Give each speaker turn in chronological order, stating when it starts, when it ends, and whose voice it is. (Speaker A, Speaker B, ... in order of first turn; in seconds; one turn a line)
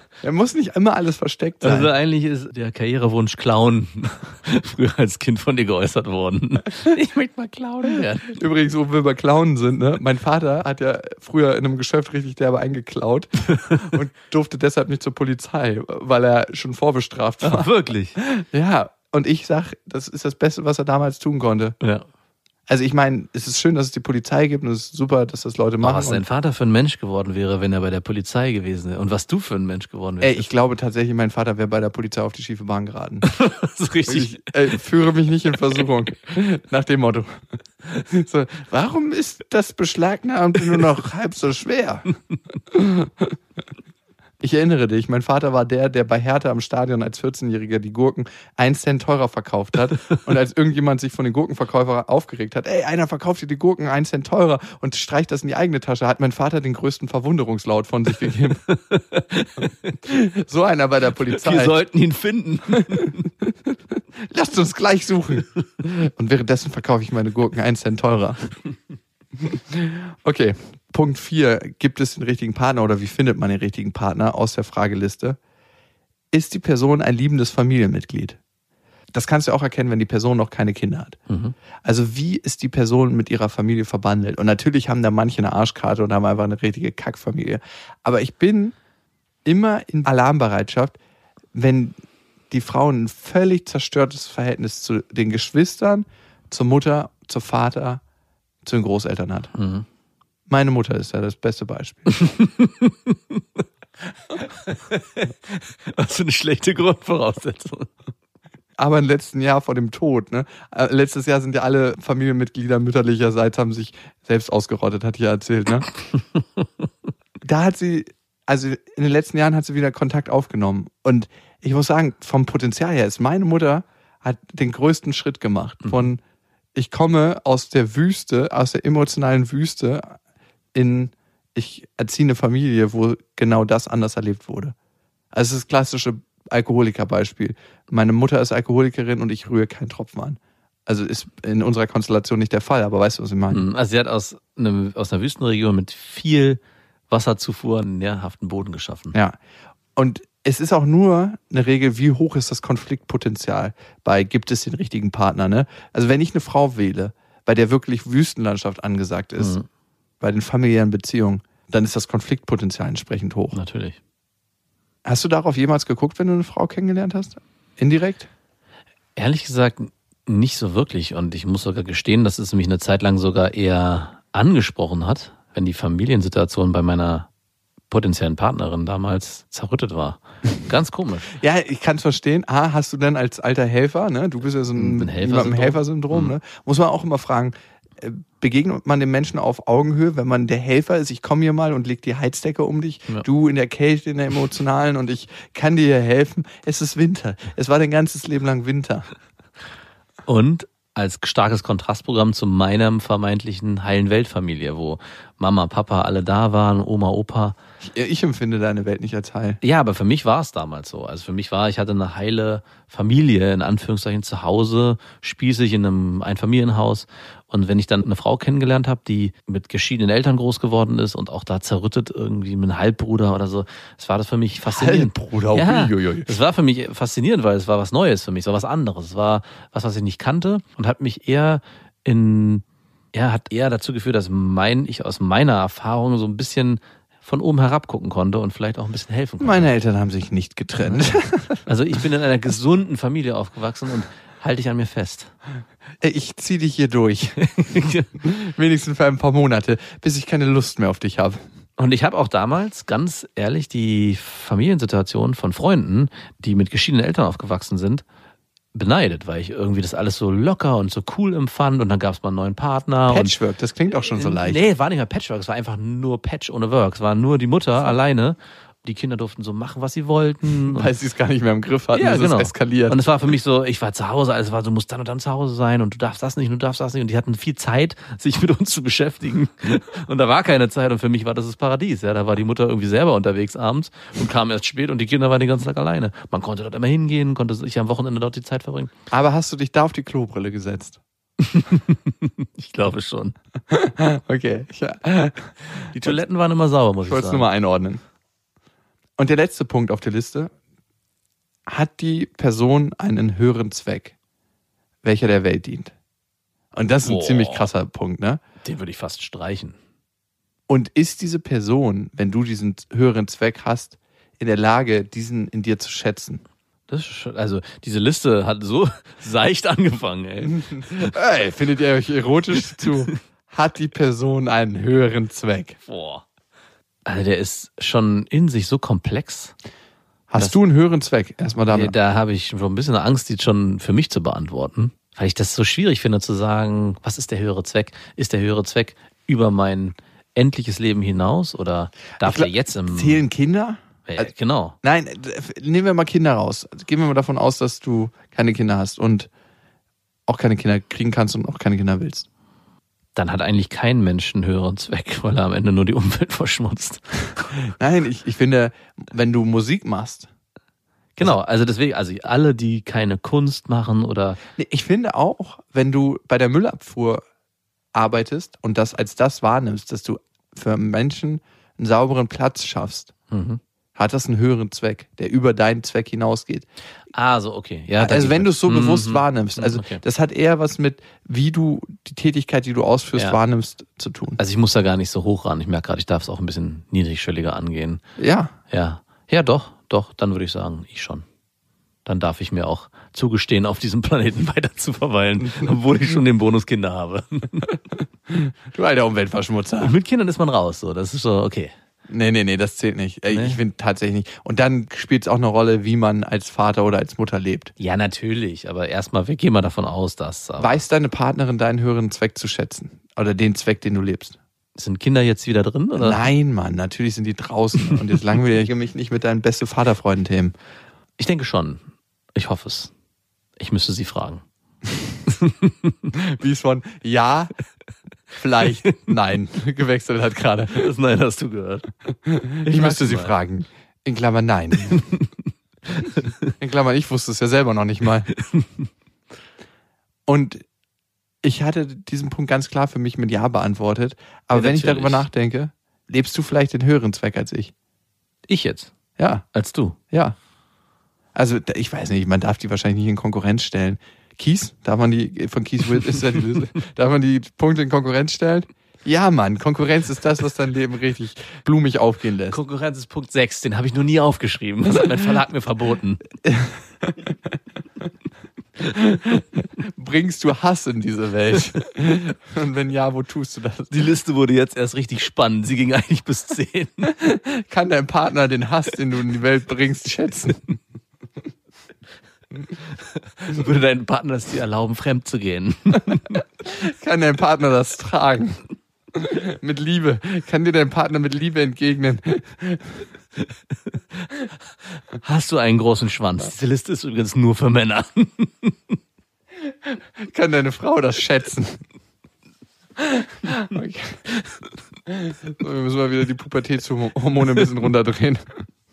Speaker A: 0.2-1.9
Speaker B: 1.6-8.4
Speaker A: 8.2-21.8
Speaker B: 13.5-13.9
Speaker B: 17.4-18.2
Speaker B: 21.8-22.1
Speaker A: 22.7-26.2
Speaker B: 25.8-30.5
Speaker A: 30.2-33.3
Speaker B: 33.2-34.5
Speaker A: 34.1-42.2
Speaker A: 42.7-43.4
Speaker A: 44.4-58.6
Speaker B: 58.7-60.0
Speaker A: 60.0-61.8
Speaker B: 61.2-63.3
Speaker A: 64.2-68.5
Speaker A: 69.4-75.4
Speaker A: 76.3-78.4
Speaker A: 79.1-81.2
Speaker B: 81.3-81.6
Speaker A: 81.8-88.8
Speaker A: 89.5-91.0
Speaker A: 91.5-92.0
Speaker A: 92.5-98.0
Speaker A: 98.6-99.5
Speaker B: 99.5-99.9
Speaker A: 100.5-102.2
Speaker B: 102.2-103.4
Speaker B: 104.5-107.9
Speaker A: 108.8-115.9
Speaker B: 116.1-116.7
Speaker A: 117.4-126.2
Speaker B: 125.8-126.1
Speaker A: 126.8-130.2
Speaker A: 130.7-134.8
Speaker A: 135.3-143.7
Speaker B: 143.5-149.2
Speaker A: 150.0-159.6
Speaker B: 159.4-159.7
Speaker A: 160.2-163.6
Speaker B: 163.5-164.0
Speaker A: 165.1-168.3
Speaker B: 169.2-177.3
Speaker B: 177.9-181.3
Speaker A: 181.3-199.1
Speaker B: 184.8-186.3
Speaker B: 200.3-207.6
Speaker A: 207.8-209.6
Speaker B: 209.6-239.7
Speaker A: 224.7-226.3
Speaker A: 239.4-241.6
Speaker B: 240.8-241.1
Speaker B: 241.7-245.3
Speaker A: 246.0-247.5
Speaker B: 247.4-248.1
Speaker A: 248.2-251.4
Speaker B: 251.8-258.0
Speaker B: 258.7-263.4
Speaker A: 263.1-264.6
Speaker B: 264.0-270.9
Speaker A: 270.7-273.0
Speaker B: 271.9-288.9
Speaker A: 289.1-291.0
Speaker B: 291.4-293.4
Speaker A: 293.7-296.2
Speaker B: 295.8-297.5
Speaker A: 297.1-298.0
Speaker A: 299.2-300.5
Speaker A: 301.7-304.1
Speaker A: 305.0-305.9
Speaker A: 306.7-308.4
Speaker B: 307.1-307.7
Speaker B: 308.6-309.8
Speaker A: 310.7-316.4
Speaker B: 316.9-321.1
Speaker A: 320.7-325.8
Speaker B: 325.9-326.2
Speaker B: 327.1-329.5
Speaker A: 330.3-331.9
Speaker B: 331.7-343.2
Speaker A: 342.2-344.2
Speaker B: 344.1-344.8
Speaker A: 344.8-349.3
Speaker A: 350.3-352.3
Speaker B: 353.2-357.5
Speaker A: 357.6-360.3
Speaker B: 361.2-364.4
Speaker A: 364.6-367.2
Speaker A: 367.9-373.1
Speaker B: 373.3-373.6
Speaker A: 374.0-376.7
Speaker B: 377.1-380.0
Speaker A: 378.0-384.4
Speaker B: 384.4-388.0
Speaker A: 388.2-388.6
Speaker B: 388.7-391.2
Speaker B: 392.1-397.7
Speaker A: 398.3-399.9
Speaker B: 399.8-401.7
Speaker A: 402.1-407.7
Speaker B: 403.3-403.6
Speaker B: 407.8-410.8
Speaker A: 410.6-414.4
Speaker B: 414.8-416.2
Speaker A: 416.0-420.5
Speaker B: 421.2-421.8
Speaker B: 422.4-422.9
Speaker B: 423.6-424.4
Speaker B: 425.3-426.1
Speaker A: 426.1-427.5
Speaker A: 428.4-430.9
Speaker B: 430.7-431.9
Speaker A: 432.2-435.1
Speaker B: 432.6-433.3
Speaker B: 434.9-435.3
Speaker B: 435.9-436.5
Speaker A: 436.6-438.3
Speaker A: 440.3-440.6
Speaker A: 441.4-447.7
Speaker B: 444.5-445.3
Speaker B: 448.5-448.9
Speaker A: 449.2-449.4
Speaker B: 449.5-450.0
Speaker A: 450.1-450.4
Speaker A: 451.4-462.6
Speaker B: 462.5-466.2
Speaker A: 466.4-466.8
Speaker A: 468.9-474.1
Speaker B: 473.9-477.1
Speaker A: 477.1-480.8
Speaker B: 483.2-486.4
Speaker A: 486.6-488.6
Speaker A: 489.1-493.0
Speaker B: 495.2-499.0
Speaker A: 499.7-501.8
Speaker A: 503.0-504.4
Speaker A: 505.1-508.7